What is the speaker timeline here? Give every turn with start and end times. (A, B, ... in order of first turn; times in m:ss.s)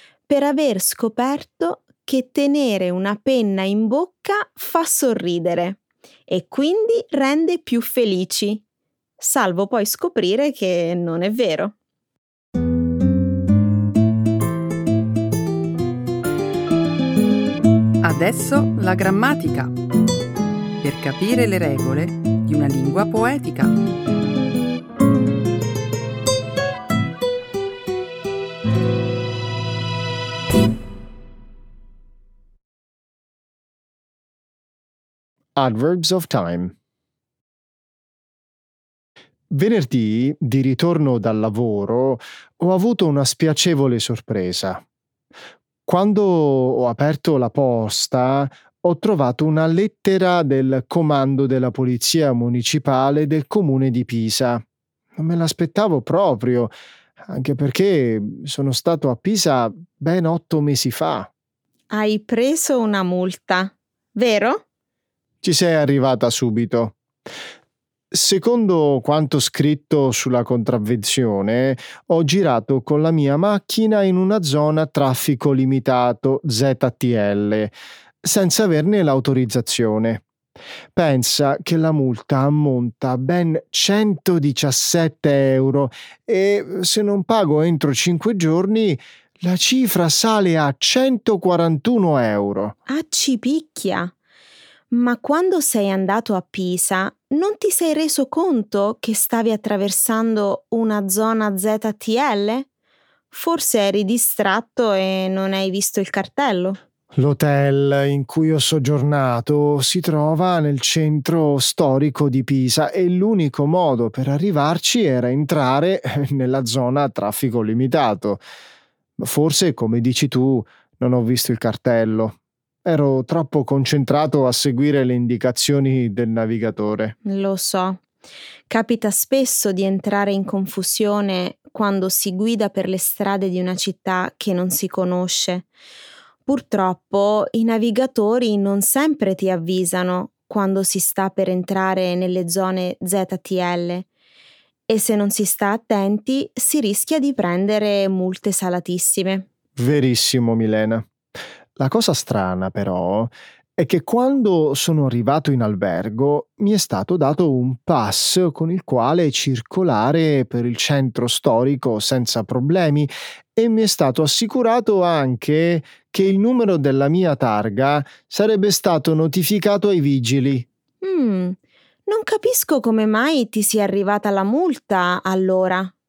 0:00.3-0:08.6 A
0:09.2-0:11.8 A
0:18.0-0:19.7 B
0:20.8-0:23.8 B
0:35.6-0:36.8 C
0:39.5-0:44.8 C
0:45.9-0:54.6 C
0:55.2-0:56.7 C
0:57.2-1:01.3 C
1:01.9-1:04.6 A
1:05.4-1:07.0 C
1:08.1-1:20.2 C
1:21.0-1:32.8 C
1:32.9-1:34.1 A
1:34.9-1:42.7 A
1:43.3-1:46.8 A
1:47.2-1:58.4 C
1:59.2-2:07.2 C
2:07.2-2:08.0 A
2:08.7-2:15.7 A
2:16.4-2:24.1 A
2:24.9-2:29.5 A
2:29.8-2:31.1 C
2:31.8-2:50.7 C
2:51.0-2:55.9 A